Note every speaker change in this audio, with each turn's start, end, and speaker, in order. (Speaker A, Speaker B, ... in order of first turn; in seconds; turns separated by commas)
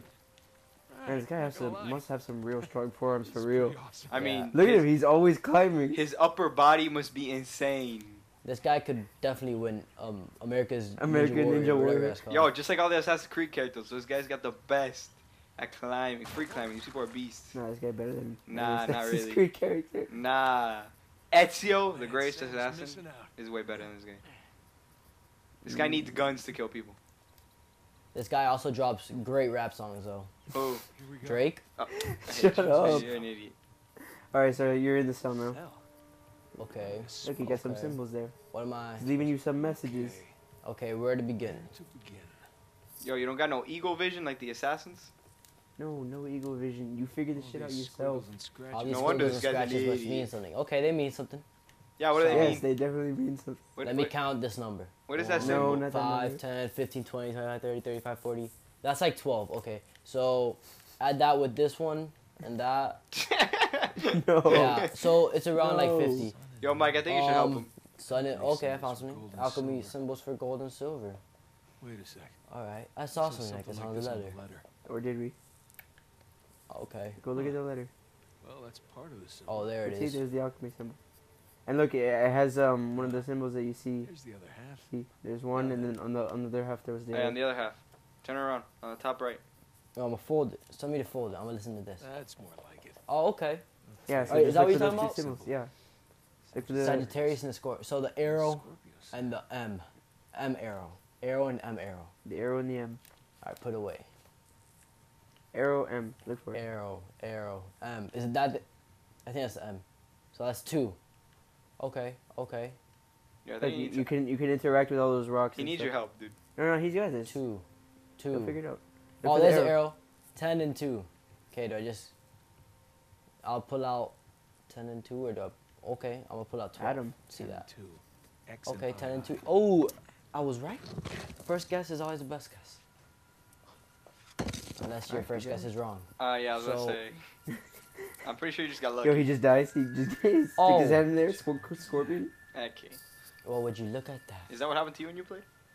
Speaker A: 0.9-2.0, Speaker B: 1.1-3.8, Speaker A: 2.6-4.3, Speaker C: 4.1-4.9, Speaker D: 4.1-4.5, Speaker B: 4.5-6.0, Speaker C: 5.9-8.2, Speaker D: 8.4-12.5, Speaker B: 11.0-12.2, Speaker C: 12.3-17.6, Speaker B: 17.5-20.1, Speaker C: 18.5-19.4, Speaker C: 20.1-24.2, Speaker A: 21.9-23.3, Speaker C: 25.6-27.0, Speaker B: 25.7-26.1, Speaker D: 28.1-30.3, Speaker C: 30.5-30.8, Speaker A: 30.9-31.6, Speaker D: 31.2-31.6, Speaker C: 31.8-33.5, Speaker B: 31.9-33.1, Speaker A: 32.5-33.3, Speaker B: 34.3-35.6, Speaker A: 35.4-35.8, Speaker D: 36.6-38.0, Speaker A: 36.7-37.8, Speaker B: 37.2-38.3, Speaker D: 38.5-39.1, Speaker B: 39.0-40.2, Speaker A: 39.0-40.3, Speaker D: 40.6-41.7, Speaker A: 41.4-42.5, Speaker C: 43.0-45.1, Speaker B: 45.8-48.3, Speaker A: 47.3-49.6, Speaker D: 48.7-51.4, Speaker C: 48.9-50.3, Speaker C: 52.0-52.6, Speaker D: 52.1-52.6, Speaker B: 52.3-53.6, Speaker C: 53.8-54.1, Speaker D: 53.8-63.0, Speaker C: 55.1-55.8, Speaker B: 55.4-56.4, Speaker C: 63.1-64.9, Speaker B: 64.0-64.9, Speaker D: 64.5-66.4, Speaker B: 65.6-66.3, Speaker A: 66.2-67.1, Speaker C: 66.6-67.7, Speaker D: 67.0-71.2, Speaker A: 68.0-70.0, Speaker A: 71.8-72.4, Speaker D: 72.5-74.4, Speaker A: 73.1-74.6, Speaker B: 74.9-75.3, Speaker D: 76.7-77.2, Speaker B: 77.2-77.9, Speaker A: 77.3-77.6, Speaker A: 78.4-79.8, Speaker D: 79.5-80.2, Speaker B: 79.8-81.0, Speaker B: 81.7-84.1, Speaker A: 83.0-83.2, Speaker A: 84.0-84.9, Speaker B: 84.9-87.4, Speaker C: 87.1-89.4, Speaker D: 89.9-92.0, Speaker A: 92.0-93.0, Speaker D: 93.1-93.6, Speaker A: 93.9-95.5, Speaker B: 94.1-95.7, Speaker D: 94.3-95.2, Speaker A: 96.5-97.3, Speaker B: 96.5-97.1, Speaker D: 96.8-102.1, Speaker A: 98.2-99.3, Speaker B: 102.2-103.0, Speaker D: 103.4-104.1, Speaker B: 105.5-106.6, Speaker D: 106.5-108.6, Speaker D: 109.2-111.0, Speaker D: 111.8-112.8, Speaker C: 113.4-114.1, Speaker B: 113.6-115.9, Speaker C: 115.5-116.4, Speaker B: 116.5-117.3, Speaker D: 117.2-117.6, Speaker D: 118.2-118.6, Speaker B: 118.3-119.9, Speaker D: 119.2-122.1, Speaker D: 123.4-124.1, Speaker D: 124.7-127.7, Speaker B: 126.8-127.2, Speaker A: 127.3-129.4, Speaker D: 128.6-130.9, Speaker D: 131.4-132.8, Speaker D: 134.8-137.0, Speaker B: 135.1-135.7, Speaker C: 136.2-137.2, Speaker C: 138.2-139.3, Speaker B: 139.0-142.3, Speaker D: 140.6-141.0, Speaker A: 141.1-142.1, Speaker C: 142.5-143.0, Speaker D: 143.4-144.5, Speaker C: 144.5-145.5